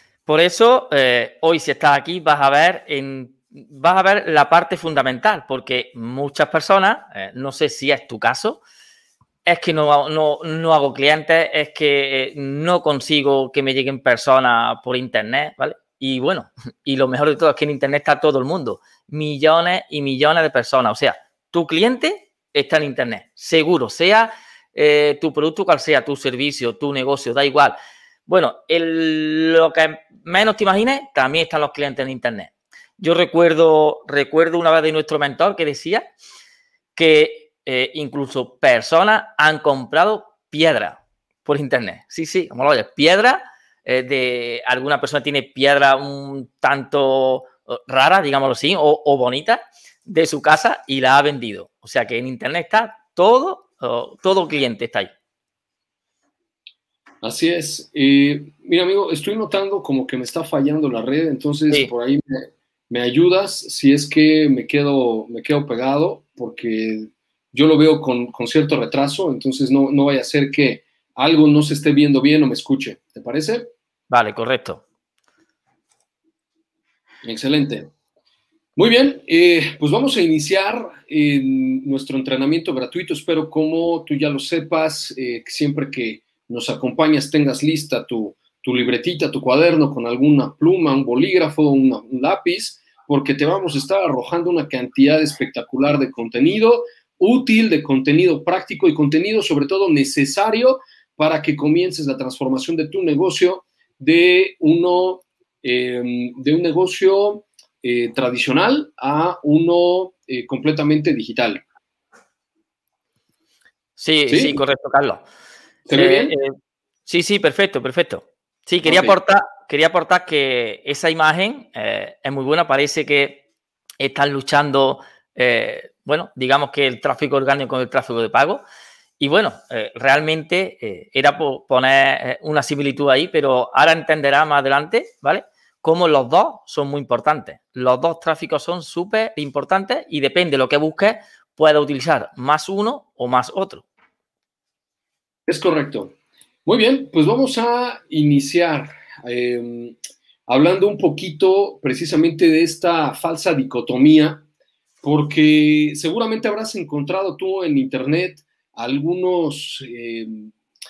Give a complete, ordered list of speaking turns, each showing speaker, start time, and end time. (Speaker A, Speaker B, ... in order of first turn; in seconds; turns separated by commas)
Speaker A: 0.3-8.6, Speaker A: 9.4-27.8, Speaker A: 28.3-36.1, Speaker A: 37.0-55.1, Speaker B: 57.2-73.7, Speaker A: 74.1-74.8, Speaker B: 77.2-77.9, Speaker B: 78.8-111.6, Speaker A: 114.0-115.2, Speaker B: 114.3-114.6, Speaker B: 115.9-116.3, Speaker A: 115.9-116.5, Speaker A: 117.1-123.4, Speaker B: 118.8-119.2, Speaker A: 124.0-128.6, Speaker A: 129.2-143.9, Speaker B: 145.5-146.2, Speaker B: 146.7-150.0, Speaker B: 150.5-154.4, Speaker B: 155.0-160.5